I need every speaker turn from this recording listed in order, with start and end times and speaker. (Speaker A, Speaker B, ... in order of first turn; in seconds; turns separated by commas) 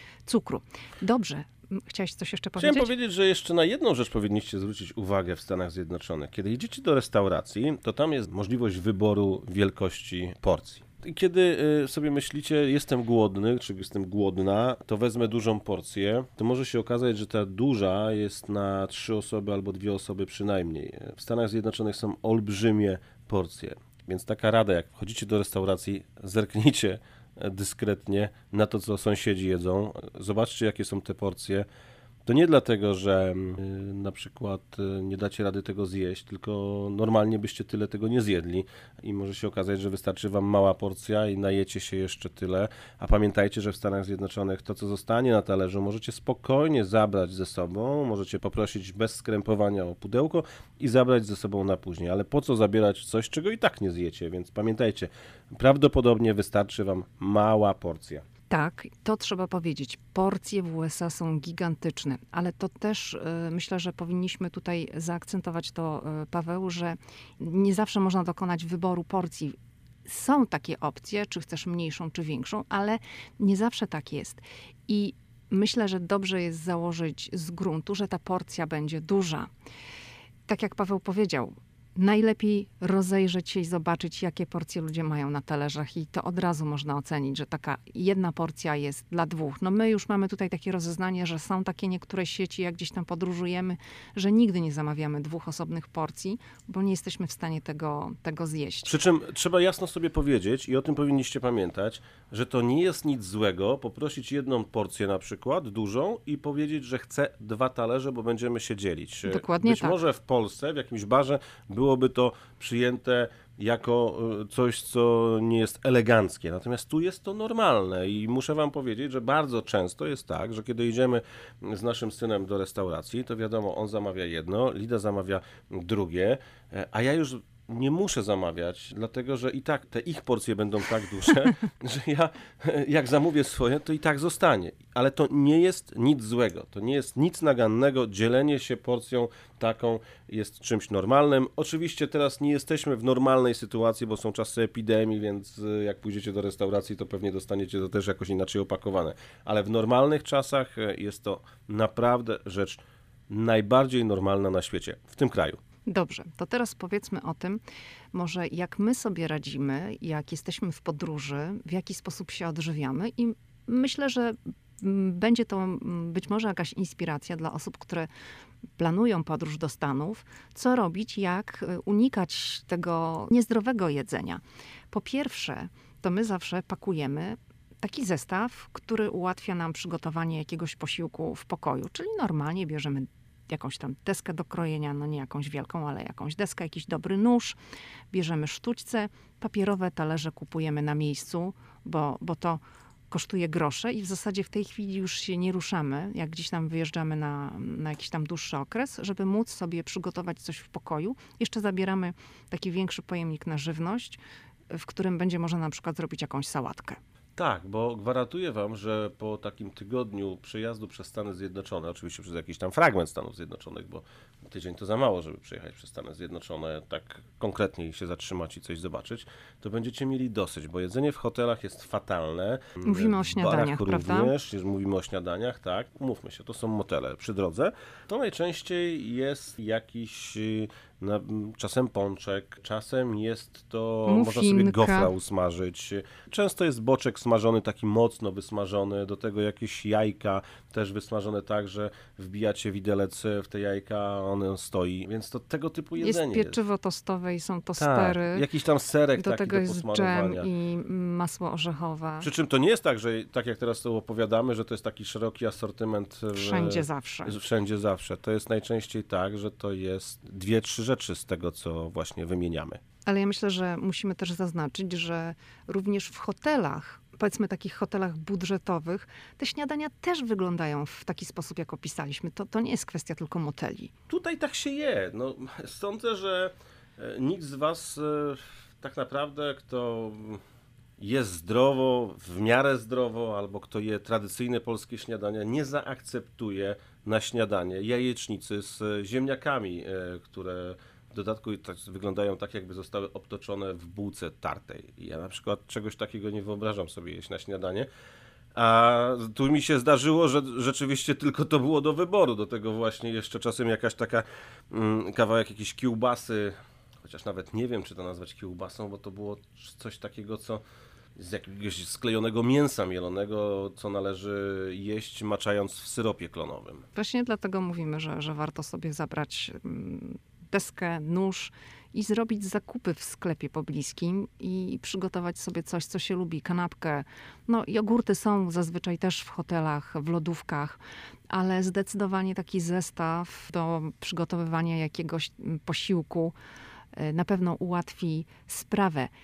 Speaker A: 0.2-2.9, Speaker B: 2.6-31.6, Speaker B: 32.2-58.2, Speaker A: 58.5-79.5, Speaker A: 80.5-98.9, Speaker B: 98.8-155.6, Speaker A: 109.2-110.0, Speaker A: 155.8-157.6, Speaker A: 158.1-168.1, Speaker A: 168.8-187.6, Speaker A: 188.1-204.2, Speaker A: 204.7-207.0, Speaker B: 207.3-246.6, Speaker A: 222.8-224.3, Speaker A: 234.1-235.1, Speaker A: 246.0-248.4, Speaker B: 247.8-250.5, Speaker A: 249.2-252.3, Speaker B: 252.2-262.8, Speaker A: 256.3-257.3, Speaker A: 263.0-273.9, Speaker B: 274.1-280.4, Speaker B: 281.0-297.9, Speaker B: 298.5-310.6, Speaker B: 311.1-316.8, Speaker A: 316.9-330.8, Speaker A: 331.3-336.3, Speaker A: 336.9-339.1